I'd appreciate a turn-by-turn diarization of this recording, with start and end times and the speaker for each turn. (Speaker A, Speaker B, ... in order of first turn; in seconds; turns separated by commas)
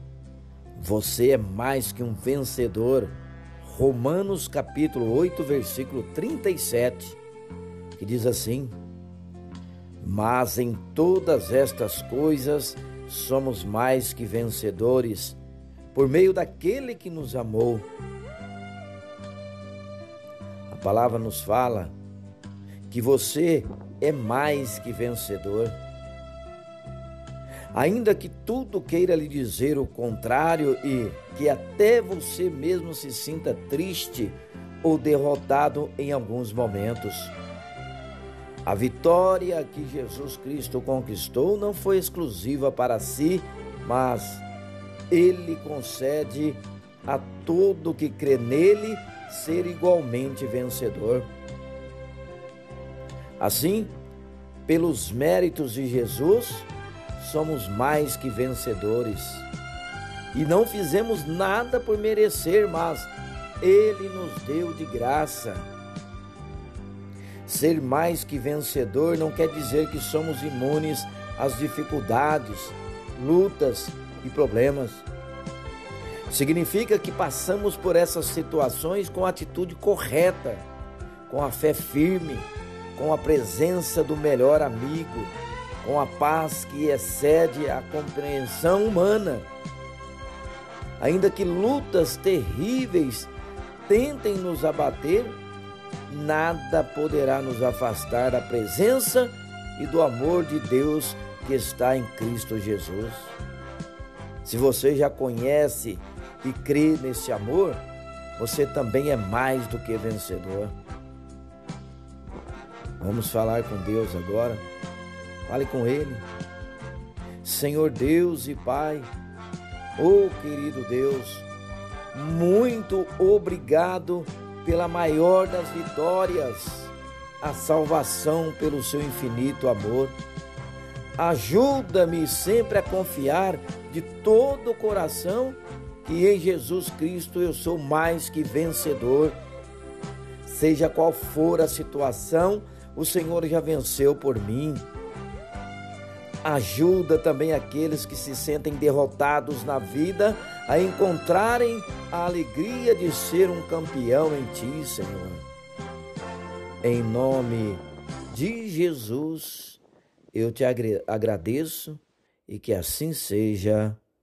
Speaker A: 0.8-7.2, Speaker A: 8.0-8.8, Speaker A: 10.0-15.4, Speaker A: 15.9-17.9, Speaker A: 20.7-21.9, Speaker A: 22.9-25.8, Speaker A: 27.7-37.3, Speaker A: 38.6-44.4, Speaker A: 45.1-51.3, Speaker A: 53.4-53.9, Speaker A: 54.7-59.5, Speaker A: 60.3-63.1, Speaker A: 63.6-65.7, Speaker A: 67.5-75.0, Speaker A: 76.3-80.7, Speaker A: 81.3-89.5, Speaker A: 91.0-93.3, Speaker A: 93.9-95.4, Speaker A: 96.1-103.3, Speaker A: 104.4-107.8, Speaker A: 108.3-110.7, Speaker A: 113.0-114.6, Speaker A: 115.5-116.3, Speaker A: 117.4-119.1, Speaker A: 120.0-121.5, Speaker A: 122.1-130.2, Speaker A: 131.2-139.4, Speaker A: 140.4-144.8, Speaker A: 146.4-155.4, Speaker A: 156.8-159.8, Speaker A: 160.3-164.0